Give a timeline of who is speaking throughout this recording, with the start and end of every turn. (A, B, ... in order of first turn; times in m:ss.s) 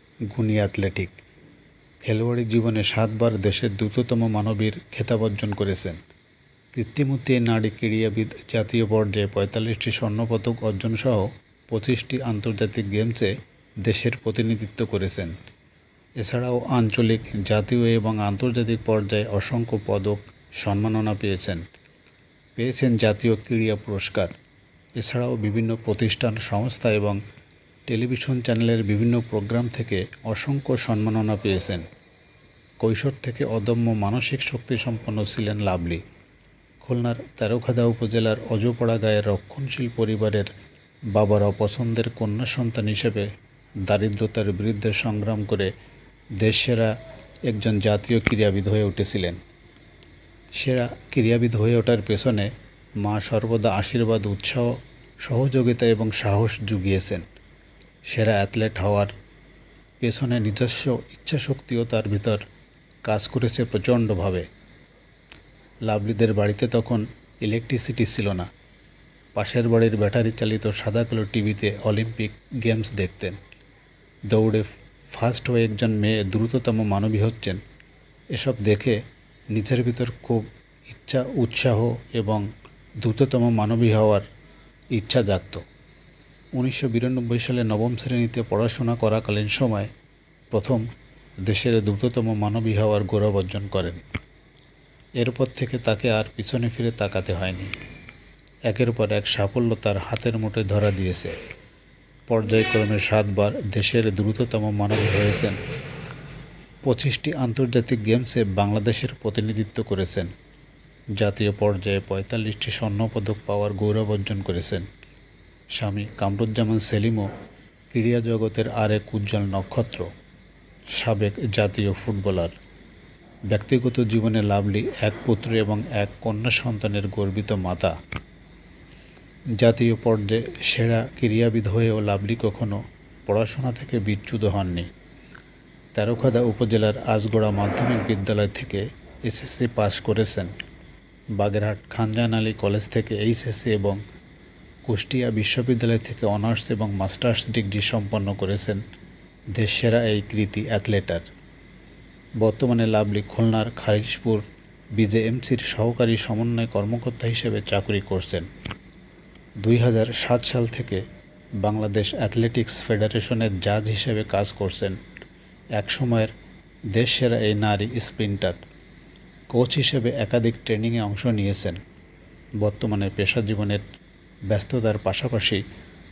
0:00.3-0:01.1 A
0:02.0-0:06.0 A
0:06.7-0:13.3 A
0:13.8-0:15.3 A
0:16.2-0:21.6 A
0:22.6-0:24.3 A
0:25.0-0:27.2 A
0:27.9-0:31.8 A
0:32.8-0:36.0 A
0:36.8-0:40.5 A
0:41.1-0:43.3 A
0:43.8-0:45.7 A
0:46.4-0:46.9 A
0:47.5-0:49.4 A
0:50.6-0:52.5 A
0:53.0-0:57.2 A
0:58.1-0:59.1 A
1:00.0-1:02.4 A
1:03.0-1:04.4 A
1:05.8-1:08.5 A
1:09.3-1:13.4 A
1:14.3-1:17.6 A
1:18.3-1:19.0 A
1:19.5-1:22.4 A
1:23.0-1:24.3 A
1:24.9-1:25.6 A
1:26.6-1:29.9 A
1:30.5-1:30.8 A
1:31.4-1:34.0 A
1:35.2-1:37.7 A
1:38.7-1:41.3 A
1:42.3-1:45.6 A
1:46.8-1:50.3 A
1:51.2-1:54.8 A
1:55.8-1:57.3 A
1:57.9-2:00.1 A
2:01.0-2:02.5 A
2:03.5-2:07.9 A
2:09.6-2:14.9 A
2:15.9-2:20.5 A
2:21.4-2:24.0 A
2:24.8-2:28.8 A
2:29.5-2:31.3 A
2:32.4-2:34.4 A
2:35.0-2:38.5 A
2:39.6-2:41.0 A
2:41.6-2:45.0 A
2:45.8-2:46.3 A
2:46.9-2:48.6 A
2:49.5-2:51.8 A
2:52.6-2:53.8 A
2:54.5-2:55.6 A